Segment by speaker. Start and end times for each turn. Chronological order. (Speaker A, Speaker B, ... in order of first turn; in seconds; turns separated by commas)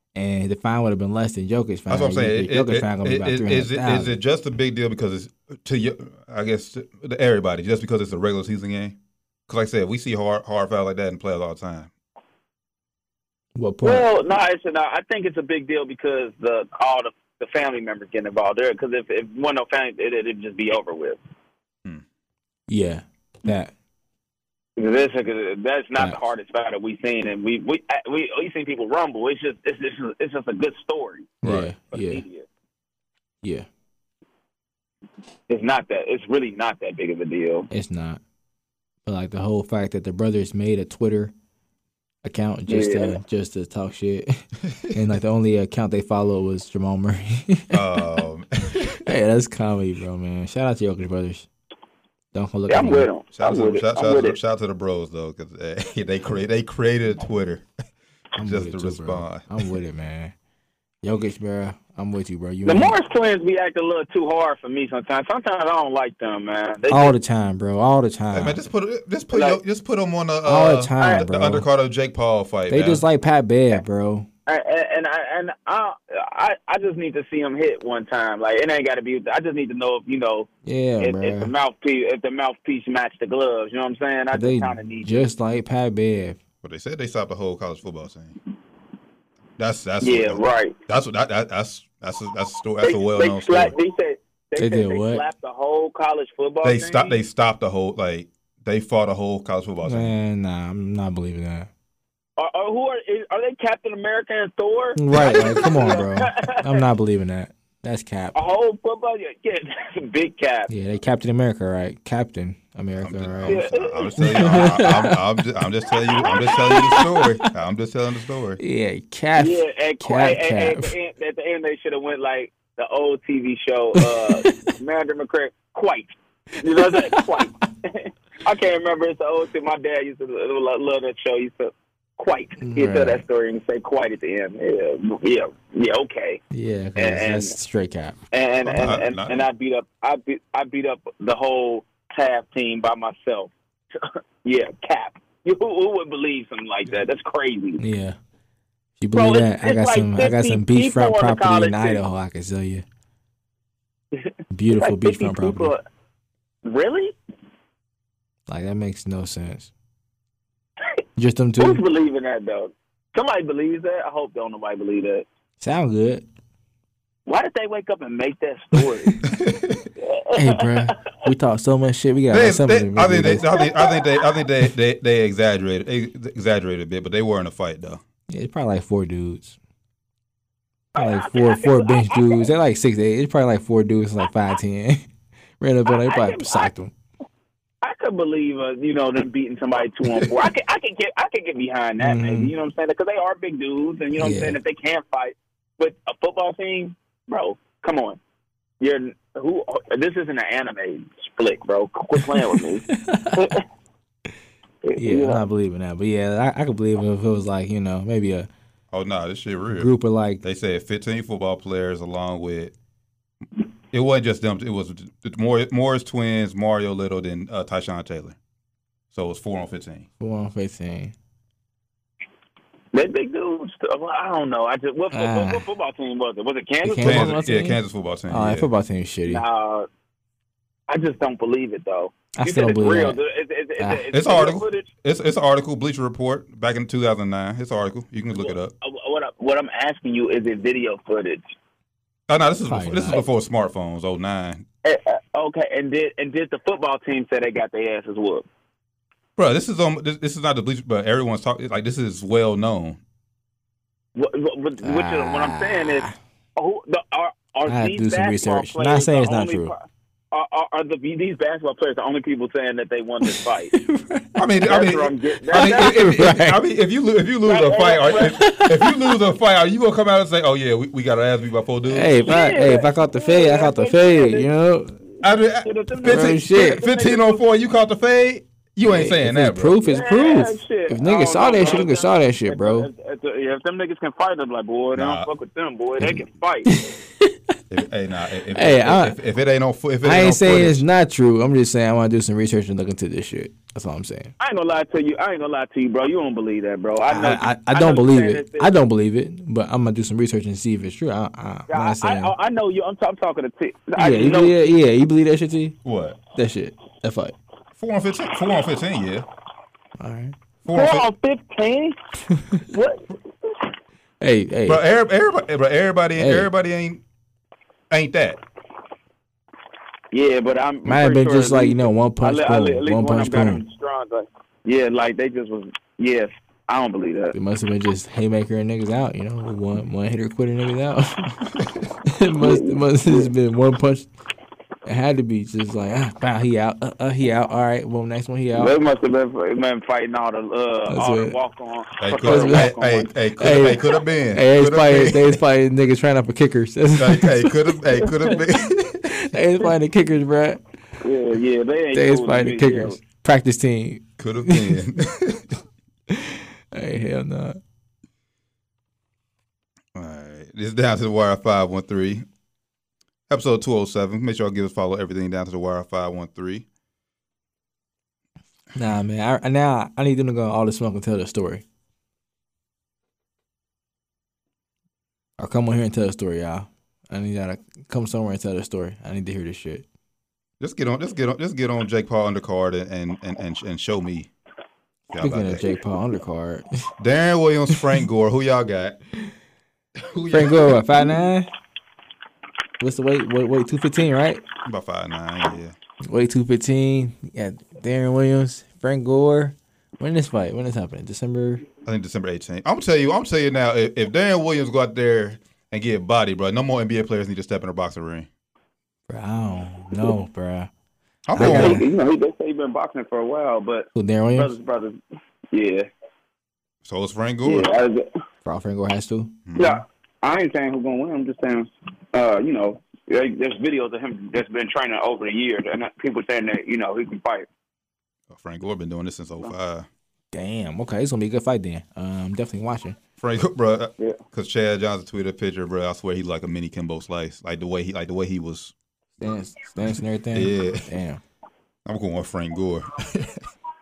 Speaker A: 0.1-4.2, Speaker B: 1.9-9.0, Speaker B: 9.5-11.9, Speaker A: 13.6-14.1, Speaker C: 13.8-21.2, Speaker A: 22.7-23.7, Speaker C: 24.8-31.4, Speaker A: 31.4-32.2, Speaker B: 31.4-31.7, Speaker C: 31.9-32.5, Speaker C: 35.5-37.7, Speaker A: 37.7-38.2, Speaker A: 39.1-41.3, Speaker A: 42.2-48.0, Speaker C: 42.7-43.1, Speaker B: 44.7-45.0, Speaker B: 47.7-49.0, Speaker A: 49.0-51.5, Speaker A: 52.3-53.1, Speaker C: 52.7-54.4, Speaker B: 53.4-57.7, Speaker A: 58.4-60.3, Speaker B: 58.4-59.5, Speaker A: 61.0-63.0, Speaker C: 62.7-67.1, Speaker A: 66.9-68.7, Speaker B: 68.3-73.0, Speaker C: 69.3-69.6, Speaker A: 70.5-71.7, Speaker A: 72.7-74.3, Speaker C: 74.5-85.2, Speaker A: 80.7-81.5, Speaker A: 84.3-86.4, Speaker B: 86.6-88.4, Speaker B: 89.6-93.7, Speaker C: 90.0-90.8, Speaker C: 92.8-97.2, Speaker A: 94.6-95.2, Speaker B: 96.6-100.1, Speaker A: 99.8-101.7, Speaker C: 102.4-106.8, Speaker A: 105.0-108.4, Speaker B: 105.1-106.0, Speaker C: 108.3-110.7, Speaker A: 110.7-113.6, Speaker B: 113.0-118.6, Speaker C: 113.5-115.0, Speaker A: 114.2-115.2, Speaker C: 116.1-116.9, Speaker A: 116.6-117.4, Speaker A: 118.6-120.9, Speaker C: 119.4-136.4, Speaker A: 124.0-124.7, Speaker A: 126.7-127.5, Speaker A: 132.6-133.2, Speaker A: 136.5-138.2, Speaker C: 137.0-137.5, Speaker C: 138.3-147.8, Speaker B: 138.7-139.5, Speaker A: 147.8-148.2, Speaker A: 149.0-152.8, Speaker C: 149.1-152.0, Speaker C: 154.1-155.8, Speaker A: 154.5-155.7, Speaker C: 156.7-157.2, Speaker A: 158.5-159.7, Speaker A: 161.2-161.8, Speaker C: 161.6-165.2, Speaker A: 165.6-166.3, Speaker C: 167.3-169.2, Speaker A: 168.8-169.2, Speaker B: 169.2-169.9, Speaker C: 170.0-171.0, Speaker A: 170.3-173.5, Speaker B: 172.3-178.0, Speaker C: 173.6-174.2, Speaker A: 178.3-179.6, Speaker C: 180.9-182.5, Speaker A: 181.0-185.1, Speaker A: 185.6-186.9, Speaker C: 185.9-186.7, Speaker C: 187.8-198.2, Speaker A: 192.0-192.5, Speaker A: 194.2-194.6, Speaker C: 198.8-203.6, Speaker A: 202.5-203.6, Speaker C: 204.8-205.4, Speaker A: 205.0-208.5, Speaker B: 208.9-209.9, Speaker A: 209.8-210.4, Speaker B: 210.4-212.7, Speaker B: 213.9-218.4, Speaker B: 219.1-220.1, Speaker A: 220.2-221.1, Speaker C: 222.9-227.3, Speaker A: 225.1-225.7, Speaker A: 226.8-229.4, Speaker B: 227.0-228.7, Speaker C: 229.3-229.9, Speaker C: 230.9-234.9, Speaker A: 232.4-233.2, Speaker B: 234.1-238.7, Speaker C: 238.3-241.4, Speaker B: 242.3-244.7, Speaker A: 242.7-243.2, Speaker C: 244.8-248.5, Speaker B: 249.4-253.0, Speaker C: 254.2-263.7, Speaker A: 254.8-256.2, Speaker A: 257.7-259.7, Speaker A: 263.2-264.4, Speaker B: 264.4-272.3, Speaker C: 264.7-265.9, Speaker A: 265.5-266.6, Speaker C: 267.4-268.4, Speaker A: 268.3-269.0, Speaker A: 271.9-275.0, Speaker C: 272.3-274.5, Speaker B: 275.2-279.8, Speaker C: 275.6-277.4, Speaker A: 276.1-276.8, Speaker A: 278.9-282.9, Speaker C: 279.9-286.7, Speaker B: 284.9-285.3, Speaker A: 286.0-287.6, Speaker B: 287.7-290.8, Speaker A: 288.5-289.2, Speaker A: 290.0-294.3, Speaker C: 294.4-298.7, Speaker A: 297.1-302.3, Speaker C: 301.7-304.5, Speaker A: 304.0-305.8, Speaker B: 305.9-306.2, Speaker A: 306.3-307.4, Speaker B: 307.8-309.3, Speaker A: 310.0-310.4, Speaker B: 310.6-311.1, Speaker C: 310.7-312.0, Speaker A: 312.3-312.6, Speaker C: 312.6-313.5, Speaker A: 314.2-314.8, Speaker B: 314.7-317.0, Speaker A: 316.2-316.5, Speaker B: 317.9-318.4, Speaker C: 320.1-327.3, Speaker A: 320.9-323.6, Speaker A: 327.3-331.4, Speaker A: 332.1-334.1, Speaker C: 332.4-333.3, Speaker A: 334.9-338.7, Speaker C: 338.6-343.1, Speaker A: 340.9-341.4, Speaker B: 342.0-345.4, Speaker A: 342.2-342.7, Speaker A: 343.4-350.6, Speaker B: 347.0-348.9, Speaker C: 351.0-353.0, Speaker A: 351.9-354.9, Speaker B: 354.2-355.6, Speaker A: 356.1-357.6, Speaker B: 359.9-362.3, Speaker B: 363.3-366.6, Speaker A: 368.8-371.6, Speaker A: 375.4-379.9, Speaker B: 380.6-384.3, Speaker B: 385.1-385.7, Speaker A: 385.2-386.7, Speaker B: 387.0-389.0, Speaker B: 390.0-390.8, Speaker A: 390.3-391.5, Speaker A: 392.8-394.4, Speaker B: 394.6-395.8, Speaker A: 396.0-401.6, Speaker B: 401.9-408.3, Speaker A: 409.1-410.7, Speaker B: 411.3-411.9, Speaker A: 411.4-411.9, Speaker C: 411.4-415.0, Speaker A: 413.9-414.5, Speaker C: 415.5-415.9, Speaker B: 416.8-417.7, Speaker C: 417.4-418.1, Speaker A: 418.4-419.4, Speaker B: 419.5-419.8, Speaker C: 419.6-427.5, Speaker B: 428.3-429.9, Speaker A: 430.3-433.0, Speaker B: 433.2-438.7, Speaker A: 439.2-441.2, Speaker B: 440.3-440.9, Speaker B: 441.9-443.5